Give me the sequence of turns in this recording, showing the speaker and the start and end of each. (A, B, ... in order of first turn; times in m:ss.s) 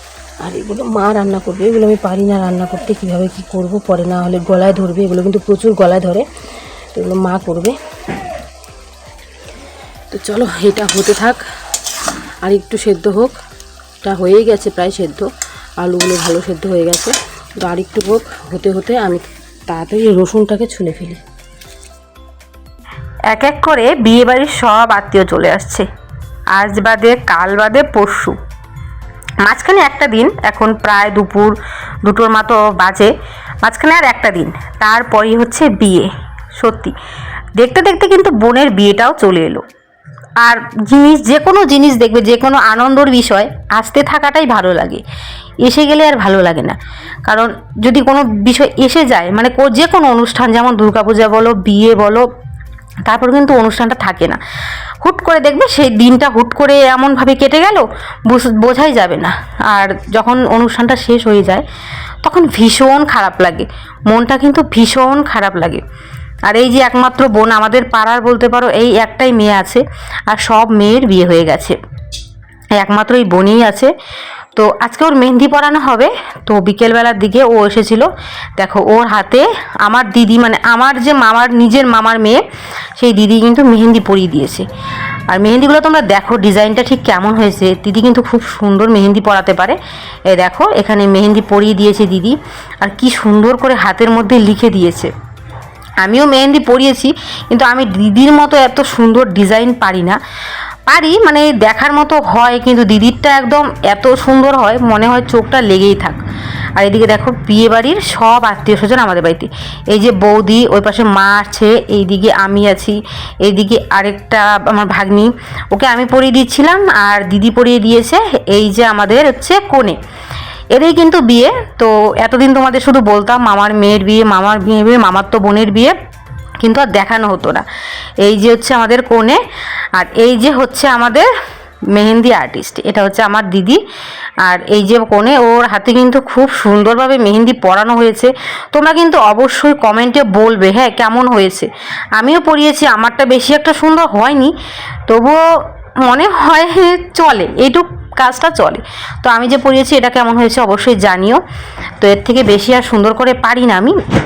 0:00.4-0:06.2 A
0:06.9-0:07.8 A
0:10.1-0:11.4 A
0:12.4-0:13.4 A
0:14.0-0:21.2 A
0:23.3-0:25.8 B
0:26.5-0:28.4 B
0:29.5-0:29.7 A
0:29.5-0:31.6 B
0:30.3-0:31.3 A
0:32.1-0:32.9 A
0:32.1-0:33.1 B
0:33.6-0:36.1 B
0:33.7-0:36.1 A
0:36.6-0:36.9 B
0:37.6-0:39.6 B
0:37.6-0:39.6 A
0:40.4-0:45.0 B
0:40.5-0:44.9 A
0:45.7-0:46.7 A
0:45.7-0:46.8 B
0:47.3-0:52.2 A
0:47.3-0:52.2 B
0:53.1-0:54.4 A
0:53.1-0:54.4 B
0:55.0-1:01.6 B
0:55.1-0:57.7 A
0:58.4-0:59.3 A
1:00.2-1:01.6 A
1:02.2-1:05.8 B
1:02.3-1:03.6 A
1:04.1-1:05.7 A
1:06.5-1:09.8 B
1:06.5-1:06.9 A
1:07.9-1:09.8 A
1:10.3-1:11.7 A
1:10.5-1:11.8 B
1:12.8-1:13.9 B
1:12.8-1:13.9 A
1:14.6-1:18.1 B
1:14.9-1:15.8 A
1:16.5-1:16.9 A
1:17.4-1:17.9 A
1:18.6-1:22.4 B
1:19.9-1:22.4 A
1:23.0-1:23.9 B
1:23.0-1:24.6 A
1:25.3-1:29.8 B
1:25.3-1:29.7 A
1:30.4-1:32.3 A
1:30.4-1:32.4 B
1:32.8-1:35.1 A
1:32.9-1:35.1 B
1:36.0-1:38.7 B
1:36.1-1:40.2 A
1:39.5-1:40.2 B
1:40.9-1:43.2 A
1:40.9-1:46.2 B
1:43.8-1:46.0 A
1:46.8-1:49.4 A
1:46.8-2:00.0 B
1:50.9-1:52.1 A
1:52.6-1:52.9 A
1:53.5-1:54.3 A
1:54.9-1:56.5 A
1:57.2-1:57.9 A
2:00.7-2:05.9 B
2:06.6-2:07.6 B
2:08.2-2:09.4 B
2:10.0-2:11.3 B
2:10.0-2:10.3 A
2:12.0-2:13.8 B
2:14.4-2:21.7 B
2:16.1-2:17.2 A
2:18.8-2:21.7 A
2:22.2-2:24.5 A
2:22.4-2:24.5 B
2:25.1-2:25.4 B
2:26.0-2:31.4 B
2:29.7-2:31.2 A
2:32.0-2:33.9 A
2:32.0-2:34.0 B